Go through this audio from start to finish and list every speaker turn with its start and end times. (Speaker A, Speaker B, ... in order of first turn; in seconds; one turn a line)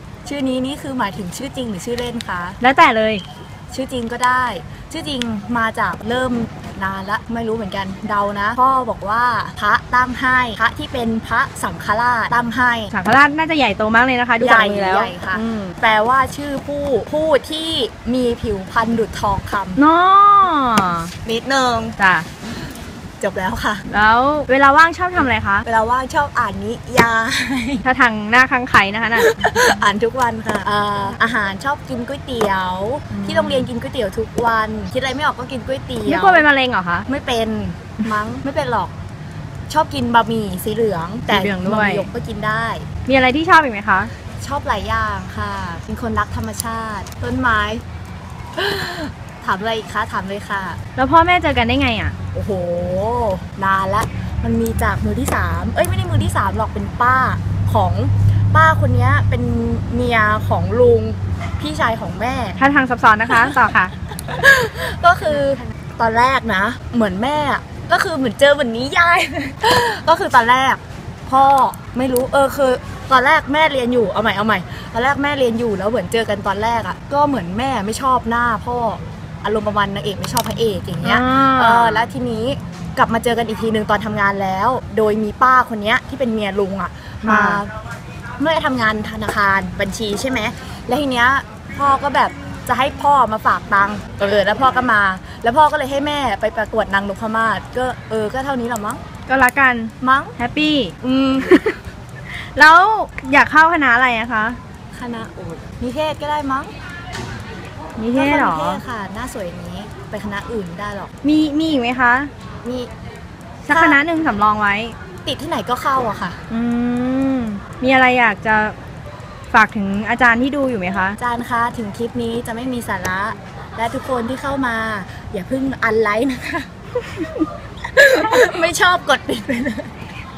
Speaker A: 0.2-2.6
Speaker B: 2.6-3.2
Speaker A: 3.7-12.9
Speaker B: 12.9-15.8
Speaker A: 14.4-19.8
Speaker B: 19.8-21.1
Speaker A: 21.2-22.0
Speaker B: 22.0-22.3
Speaker A: 23.2-23.9
Speaker B: 23.9-25.7
Speaker A: 25.6-27.9
Speaker B: 27.8-29.4
Speaker A: 29.1-36.5
Speaker B: 33.1-33.7
Speaker B: 36.1-37.1
Speaker A: 37.1-38.9
Speaker A: 39.7-42.9
Speaker B: 41.3-42.1
Speaker B: 43.1-44.1
Speaker A: 44.4-47.8
Speaker A: 48.5-50.8
Speaker B: 51.0-52.2
Speaker A: 52.3-62.6
Speaker B: 62.6-63.9
Speaker A: 63.3-87.7
Speaker B: 81.0-82.1
Speaker B: 87.3-87.6
Speaker A: 88.4-99.0
Speaker B: 99.3-101.0
Speaker A: 100.0-100.3
Speaker A: 101.0-101.6
Speaker B: 101.5-101.8
Speaker B: 102.3-104.6
Speaker A: 104.9-106.7
Speaker B: 108.0-108.8
Speaker A: 108.1-111.1
Speaker B: 111.2-112.3
Speaker A: 112.6-112.9
Speaker B: 113.7-115.0
Speaker A: 113.7-114.0
Speaker A: 115.2-116.4
Speaker B: 116.5-118.8
Speaker B: 119.5-121.2
Speaker A: 121.2-126.7
Speaker A: 127.9-129.9